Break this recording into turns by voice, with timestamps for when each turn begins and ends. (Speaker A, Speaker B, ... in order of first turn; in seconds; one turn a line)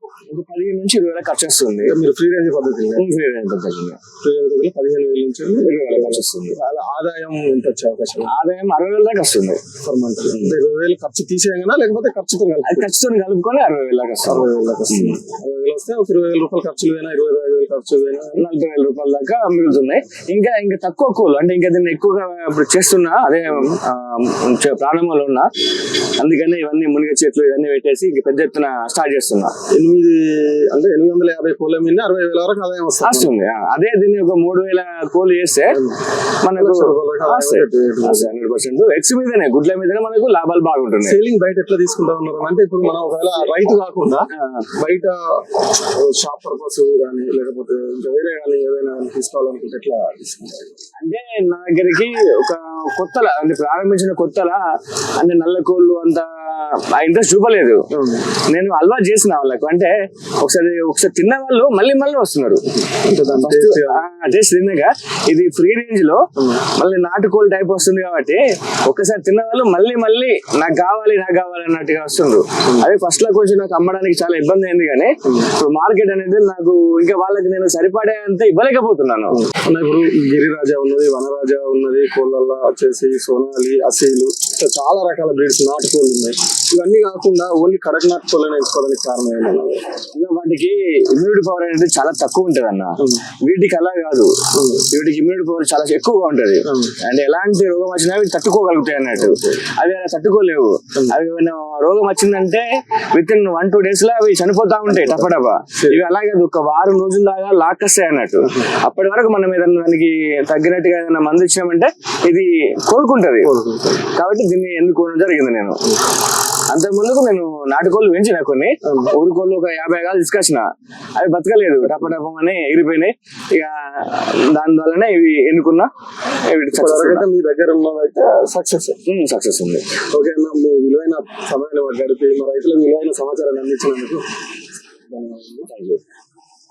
Speaker A: 0.3-2.0
Speaker B: 1.8-3.0
Speaker A: 3.0-4.0
Speaker B: 4.2-8.3
Speaker A: 5.6-6.6
Speaker A: 8.3-9.6
Speaker B: 9.8-12.9
Speaker A: 10.3-10.6
Speaker A: 12.7-15.2
Speaker B: 14.2-18.4
Speaker A: 18.4-25.5
Speaker A: 26.2-29.5
Speaker B: 29.7-33.3
Speaker A: 33.0-35.8
Speaker B: 35.7-36.0
Speaker A: 36.4-41.2
Speaker B: 36.5-38.3
Speaker B: 41.0-44.3
Speaker A: 44.4-44.7
Speaker B: 44.8-50.7
Speaker A: 51.0-54.6
Speaker A: 55.2-57.8
Speaker B: 57.9-58.3
Speaker A: 58.5-62.6
Speaker B: 62.9-64.0
Speaker A: 63.4-66.2
Speaker B: 66.4-66.6
Speaker A: 66.8-79.4
Speaker B: 79.3-89.8
Speaker A: 90.1-94.3
Speaker B: 94.5-94.9
Speaker A: 94.9-113.5
Speaker B: 96.7-97.0
Speaker B: 99.2-99.6
Speaker B: 104.9-106.0
Speaker B: 108.4-108.7
Speaker B: 113.4-114.0
Speaker A: 114.2-115.8
Speaker A: 116.7-120.7
Speaker B: 118.8-119.1
Speaker A: 121.2-125.9
Speaker A: 126.5-127.3
Speaker B: 126.7-129.0
Speaker A: 129.1-129.9
Speaker B: 130.1-134.2
Speaker B: 135.1-135.7
Speaker A: 135.7-136.0